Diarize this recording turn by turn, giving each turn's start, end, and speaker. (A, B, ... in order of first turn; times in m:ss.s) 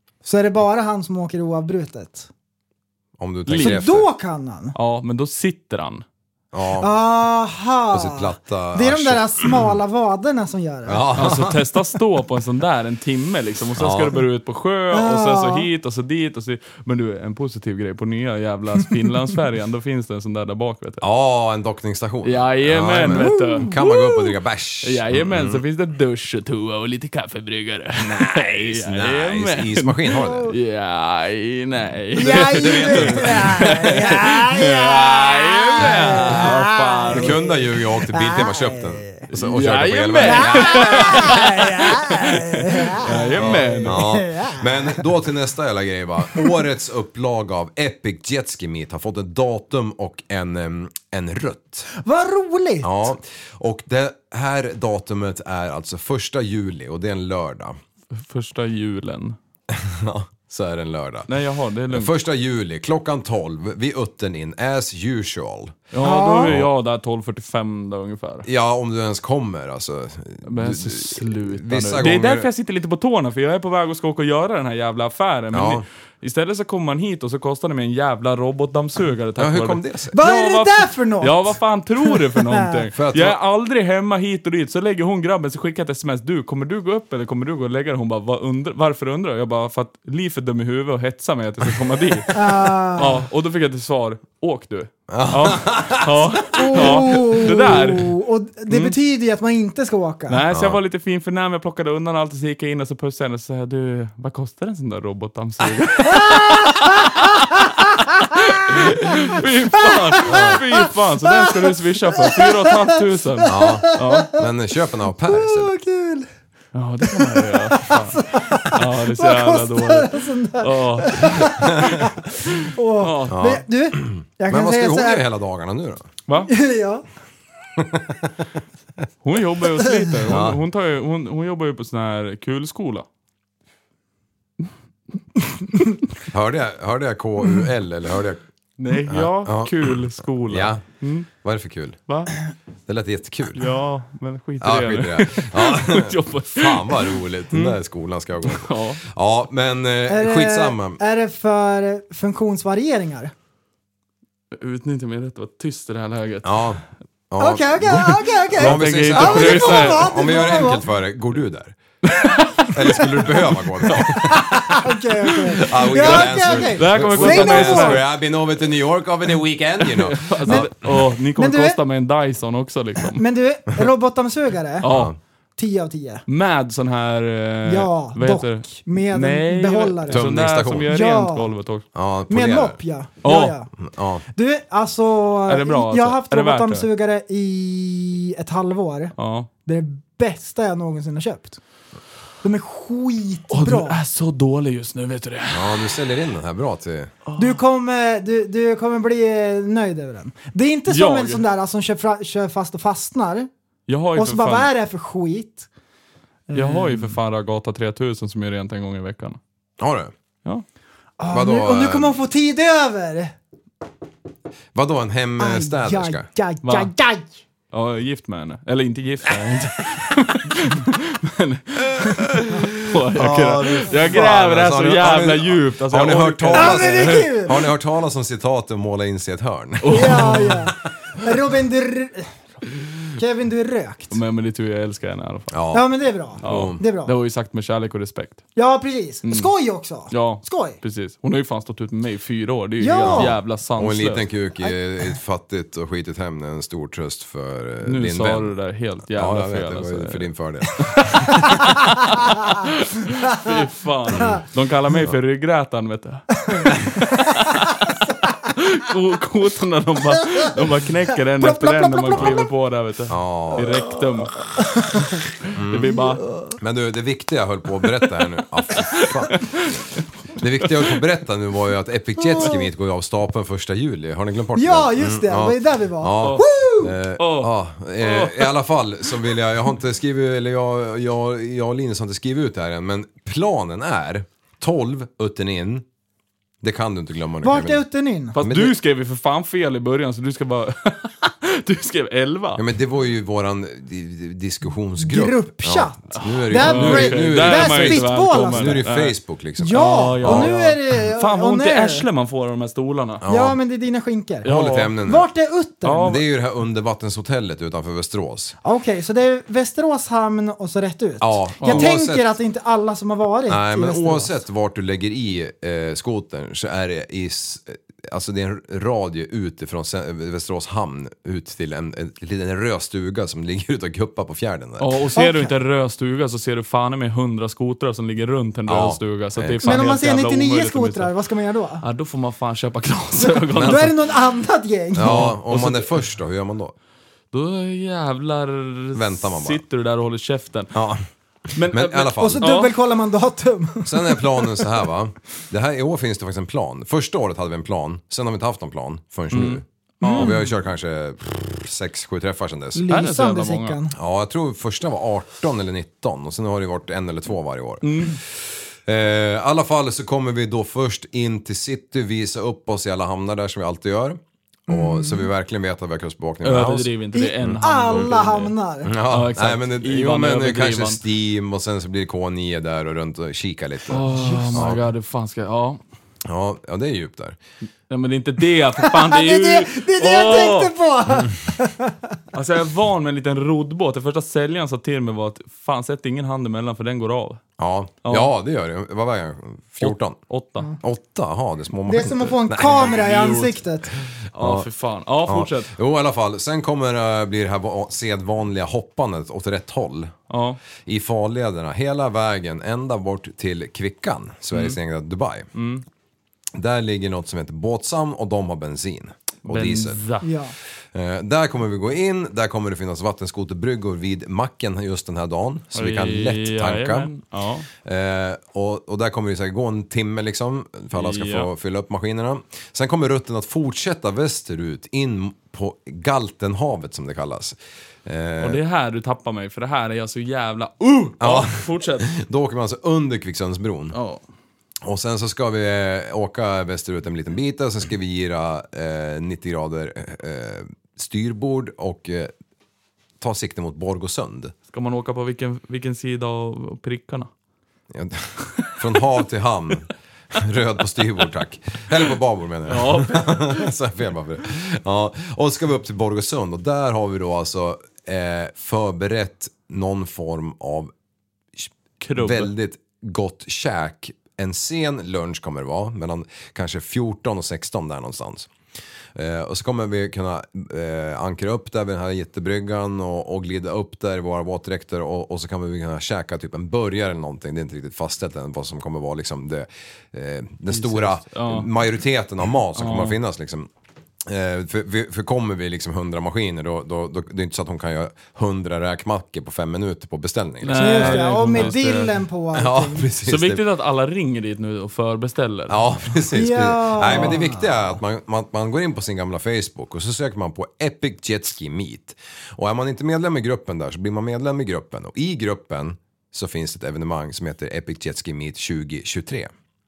0:00.2-0:02.3 A
0:03.2-0:04.1 B
0:03.5-0:03.8 C
0:03.6-0:04.8 A
0:04.7-0:06.0 C
0:06.5-0:06.9 B
0:06.8-0:11.1 A
0:07.9-0:09.7 B
0:10.9-0:11.6 B
0:11.1-0:21.0 C
0:13.8-0:14.2 B
0:14.9-0:15.7 A
0:21.0-0:25.6 B
0:22.2-0:23.9 C
0:23.1-0:24.1 A
0:24.8-0:37.4 C
0:28.0-0:30.5 B
0:32.2-0:39.2 A
0:32.2-0:33.8 B
0:35.8-0:36.4 B
0:37.1-0:41.4 B
0:39.3-0:44.1 C
0:40.2-0:45.0 A
0:43.4-0:51.9 B
0:52.0-0:53.1 A
0:52.8-0:57.8 B
0:58.1-0:59.4 C
0:59.7-1:01.3 B
1:01.3-1:02.1 C
1:01.9-1:05.8 B
1:05.9-1:08.4 C
1:06.0-1:06.5 A
1:08.4-1:12.5 B
1:10.4-1:38.1 C
1:15.5-1:15.8 B
1:19.4-1:20.2 B
1:20.1-1:22.8 A
1:23.0-1:23.4 B
1:32.3-1:33.2 A
1:35.1-1:36.9 B
1:36.6-1:40.4 A
1:38.7-1:39.0 C
1:40.3-1:47.6 C
1:40.5-1:40.8 B
1:46.1-1:47.2 A
1:48.3-1:54.3 C
1:48.9-1:49.2 A
1:49.8-1:54.4 A
1:50.2-1:50.6 B
1:53.5-1:55.7 B
1:55.3-1:56.3 A
1:56.7-2:03.5 C
1:57.0-2:05.2 A
2:03.3-2:06.1 B
2:06.3-2:06.5 C
2:06.4-2:07.0 A
2:07.8-2:08.2 B
2:09.2-2:13.0 C
2:09.9-2:10.2 A
2:10.3-2:10.6 B
2:16.3-2:18.4 B
2:18.8-2:21.3 C
2:19.1-2:20.8 B
2:21.4-2:22.0 B
2:22.1-2:22.3 C
2:22.9-2:23.6 B
2:23.5-2:27.8 C
2:24.6-2:31.0 B
2:28.4-2:29.0 C
2:30.1-2:33.3 A
2:34.5-2:36.7 C
2:36.4-2:41.8 B
2:37.4-2:40.8 A
2:38.5-2:40.1 C
2:42.0-2:42.9 C
2:42.7-2:44.8 B
2:43.8-2:44.2 C
2:44.2-2:48.0 A
2:45.3-2:48.0 C
2:45.6-2:50.9 B
2:49.8-2:53.2 C
2:51.4-2:51.8 A
2:53.1-2:54.9 A
2:54.8-2:55.1 C
2:54.9-2:55.2 B
2:55.6-2:56.2 A
2:56.3-3:01.8 C
2:57.6-3:00.3 A
3:00.1-3:00.9 B
3:00.9-3:01.5 A
3:01.9-3:02.8 B
3:02.3-3:03.7 A
3:03.2-3:03.6 C
3:03.8-3:04.2 B
3:04.3-3:11.6 A
3:05.5-3:06.9 C
3:09.2-3:09.5 C
3:12.4-3:14.0 A
3:13.5-3:15.9 C
3:15.5-3:17.1 B
3:17.3-3:17.6 C
3:17.4-3:23.5 A
3:20.9-3:21.4 C
3:23.9-3:24.7 C
3:24.1-3:25.7 A
3:26.5-3:27.2 A
3:26.5-3:29.4 C
3:29.8-3:30.1 B
3:31.2-3:33.3 A
3:31.3-3:32.2 B
3:34.7-3:36.2 B
3:35.4-3:37.4 A
3:36.6-3:36.9 C
3:37.7-3:47.3 C
3:43.1-3:50.5 B
3:46.5-3:47.6 A
3:49.8-3:50.7 C
3:49.9-3:52.3 A
3:53.2-3:54.2 A
3:54.1-3:55.6 C
3:55.5-3:55.8 B
3:55.7-3:57.1 A
3:56.4-3:56.8 B
3:56.4-3:58.4 C
3:58.6-4:00.8 A
3:59.2-3:59.5 C
4:00.1-4:04.3 C
4:02.8-4:03.3 A
4:03.0-4:08.5 B
4:07.8-4:17.9 C
4:09.1-4:11.8 B
4:18.5-4:24.4 C
4:21.4-4:22.5 A
4:23.1-4:23.7 B
4:24.6-4:25.0 A
4:25.5-4:25.9 B
4:25.6-4:26.2 C
4:25.9-4:26.5 A
4:26.6-4:29.4 B
4:28.7-4:30.0 C
4:30.3-4:45.8 B
4:34.5-4:36.9 A
4:36.2-4:36.5 C
4:37.2-4:38.5 C
4:46.6-4:47.8 B
4:47.4-4:48.4 A
4:48.3-4:52.6 C
4:48.4-4:48.8 B
4:52.6-5:00.5 B
4:55.0-4:58.8 A
4:56.2-4:59.2 C
4:59.6-5:02.0 A
4:59.7-5:03.2 C
5:03.2-5:03.6 B
5:03.3-5:04.5 A
5:04.4-5:04.9 C
5:04.4-5:05.2 B
5:05.0-5:06.2 A
5:05.8-5:06.2 C
5:06.0-5:08.6 B
5:08.6-5:14.4 A
5:11.2-5:12.3 B
5:11.6-5:11.9 C
5:13.5-5:24.9 B
5:24.8-5:31.1 C
5:25.1-5:25.5 A
5:28.7-5:29.8 B
5:29.6-5:31.8 A
5:31.8-5:34.0 C
5:33.2-5:35.3 A
5:34.9-5:36.7 B
5:35.0-5:36.0 C
5:37.3-5:40.7 C
5:38.9-5:39.6 B
5:40.7-5:41.0 B
5:41.5-5:42.7 C
5:41.6-5:42.5 B
5:42.2-5:44.6 A
5:43.8-5:52.8 B
5:49.3-5:50.4 C
5:50.0-5:50.4 A
5:52.7-5:53.9 A
5:52.9-5:53.8 C
5:53.9-6:06.9 B
5:57.8-5:58.2 C
6:04.7-6:05.3 A
6:06.4-6:11.0 C
6:07.1-6:08.9 A
6:07.4-6:08.1 B
6:08.8-6:14.8 B
6:13.9-6:15.8 C
6:14.1-6:14.6 A
6:16.3-6:17.4 B
6:17.9-6:20.7 C
6:18.8-6:22.0 A
6:22.3-6:27.4 C
6:27.6-6:30.2 B
6:28.0-6:28.3 C
6:29.8-6:30.7 C
6:30.8-6:33.0 B
6:31.9-6:33.9 A
6:32.8-6:33.6 C
6:34.3-6:35.7 C
6:34.4-6:34.7 B
6:35.2-6:40.1 B
6:40.3-6:40.6 C
6:40.8-6:45.5 B
6:45.5-6:45.8 C
6:46.6-6:50.0 B
6:49.4-6:50.3 C
6:50.2-6:50.5 A
6:50.9-6:57.1 B
6:55.7-6:57.7 C
6:57.8-7:08.6 B
7:00.9-7:01.5 C
7:08.4-7:12.1 C
7:11.2-7:14.0 B
7:13.9-7:14.2 C
7:14.8-7:22.3 B
7:23.2-7:24.5 B
7:24.7-7:27.3 C
7:27.9-7:40.9 B
7:32.7-7:33.6 C
7:41.6-7:48.5 B
7:42.0-7:42.5 C
7:49.2-8:03.7 B
8:00.7-8:01.7 C
8:02.7-8:03.2 C
8:04.2-8:11.8 B
8:10.6-8:12.2 C
8:10.7-8:13.1 A
8:12.5-8:13.6 B
8:13.2-8:16.0 C
8:15.7-8:29.5 B
8:16.3-8:17.6 A
8:17.0-8:17.4 C